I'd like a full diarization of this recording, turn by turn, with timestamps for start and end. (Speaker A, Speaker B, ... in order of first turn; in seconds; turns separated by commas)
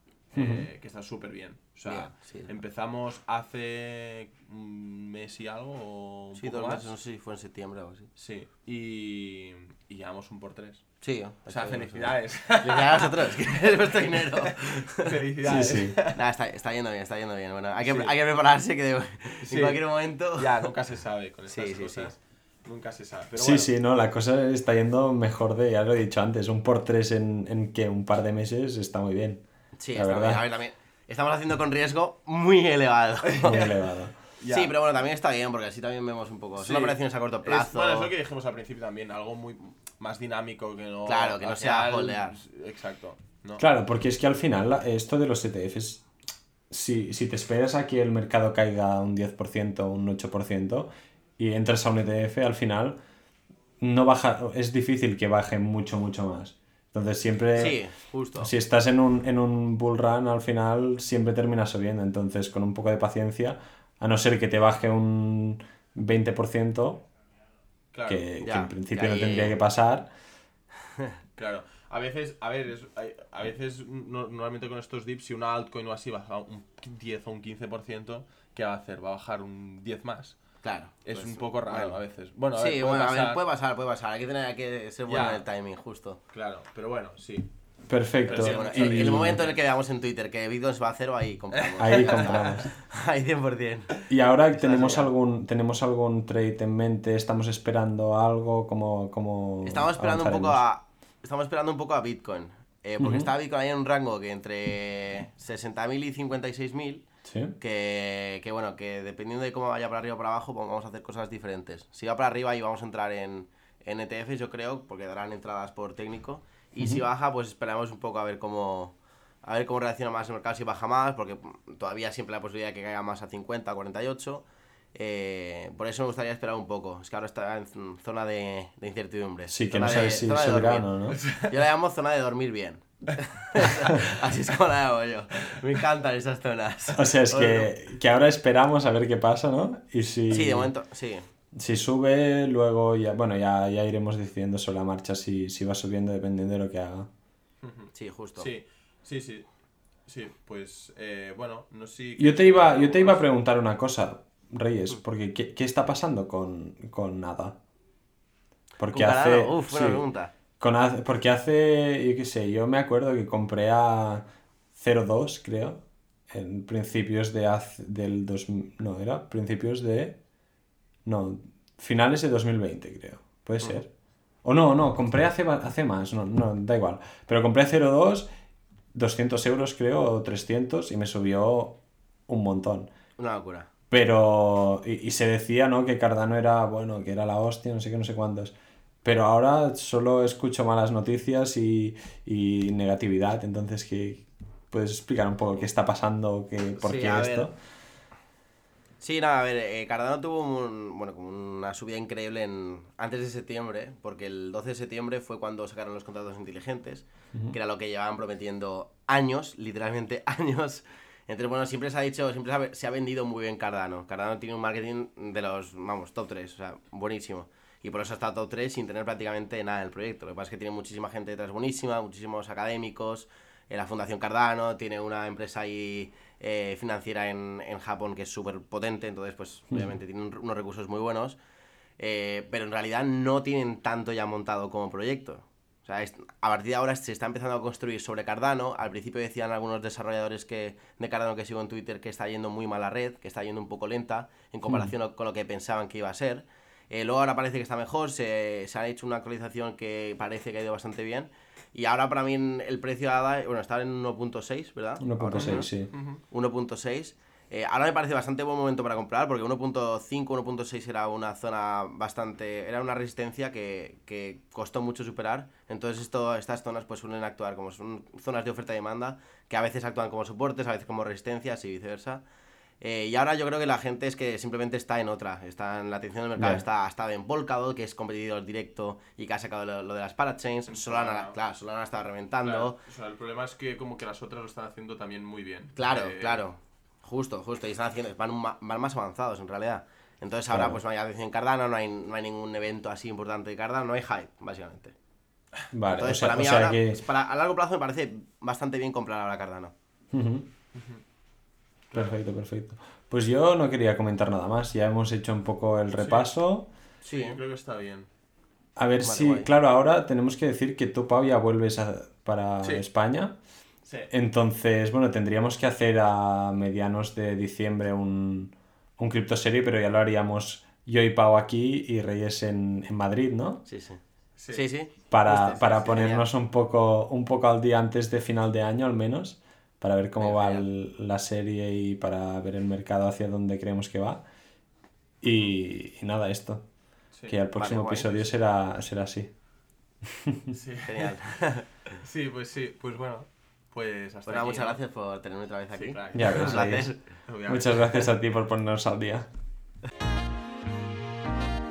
Speaker A: 0.3-6.9, Speaker B: 0.3-0.7, Speaker C: 1.9-2.6, Speaker C: 6.4-8.1, Speaker A: 8.2-10.8, Speaker C: 11.0-20.7, Speaker A: 11.5-16.2, Speaker B: 15.5-16.0, Speaker A: 17.8-18.1, Speaker A: 19.4-19.8, Speaker A: 20.3-23.7, Speaker C: 21.5-22.1, Speaker B: 23.4-30.4, Speaker C: 29.8-33.7, Speaker A: 33.3-33.8, Speaker B: 33.4-34.1, Speaker A: 34.4-34.7, Speaker C: 34.5-38.1, Speaker A: 36.6-43.6, Speaker C: 41.1-42.4, Speaker B: 43.6-46.0, Speaker B: 46.7-53.0, Speaker B: 53.8-57.8, Speaker C: 57.5-58.5, Speaker B: 58.4-67.1, Speaker A: 67.9-68.2, Speaker B: 68.1-70.1, Speaker C: 68.4-69.6, Speaker A: 71.4-80.4, Speaker C: 80.6-82.0, Speaker A: 81.0-83.4, Speaker C: 82.6-86.2, Speaker A: 85.1-85.5, Speaker A: 86.3-87.5, Speaker B: 87.9-89.4, Speaker C: 88.2-94.0, Speaker A: 88.3-89.5, Speaker A: 91.6-92.5, Speaker B: 91.8-92.7, Speaker B: 94.1-100.6, Speaker C: 94.6-95.0, Speaker A: 94.7-95.0, Speaker C: 99.6-107.1, Speaker B: 103.0-103.3, Speaker B: 107.3-107.6, Speaker C: 107.6-130.9, Speaker B: 129.5-131.2, Speaker A: 131.1-131.5, Speaker C: 131.4-137.7, Speaker B: 137.0-140.7, Speaker C: 140.3-141.3, Speaker B: 141.6-147.1, Speaker A: 147.6-149.5, Speaker C: 147.9-148.5, Speaker A: 150.1-153.3, Speaker B: 152.2-157.6, Speaker B: 158.8-160.0, Speaker C: 158.9-160.3, Speaker B: 160.6-170.2, Speaker B: 171.1-173.9, Speaker B: 174.4-178.3, Speaker B: 178.9-182.9, Speaker C: 183.2-183.7, Speaker B: 183.9-197.6, Speaker C: 196.8-197.5, Speaker C: 199.0-231.4, Speaker C: 232.0-255.7, Speaker B: 255.0-255.9, Speaker A: 255.4-256.2, Speaker C: 256.3-272.2, Speaker C: 272.8-282.8, Speaker B: 276.4-276.6, Speaker A: 280.7-281.4, Speaker A: 282.4-286.4, Speaker C: 285.8-294.9, Speaker B: 290.5-290.8, Speaker B: 295.7-297.0, Speaker C: 295.9-299.7, Speaker B: 300.1-300.5, Speaker A: 300.8-301.0, Speaker A: 301.9-302.2, Speaker B: 301.9-306.7, Speaker A: 305.9-306.3, Speaker C: 307.0-307.4, Speaker A: 307.1-308.1, Speaker B: 308.8-313.4, Speaker C: 309.0-309.5, Speaker A: 312.6-312.9, Speaker A: 313.9-314.1, Speaker B: 314.1-323.6, Speaker C: 323.7-324.0, Speaker A: 324.4-324.6, Speaker C: 324.5-326.3, Speaker B: 325.1-334.2, Speaker C: 330.2-330.7, Speaker B: 335.2-336.7, Speaker B: 337.3-339.3, Speaker C: 337.6-338.3, Speaker A: 340.5-341.1, Speaker C: 340.9-341.7, Speaker A: 342.0-344.8, Speaker C: 344.3-347.0, Speaker A: 345.8-346.7, Speaker B: 346.1-346.9, Speaker A: 347.3-348.1, Speaker B: 347.5-349.3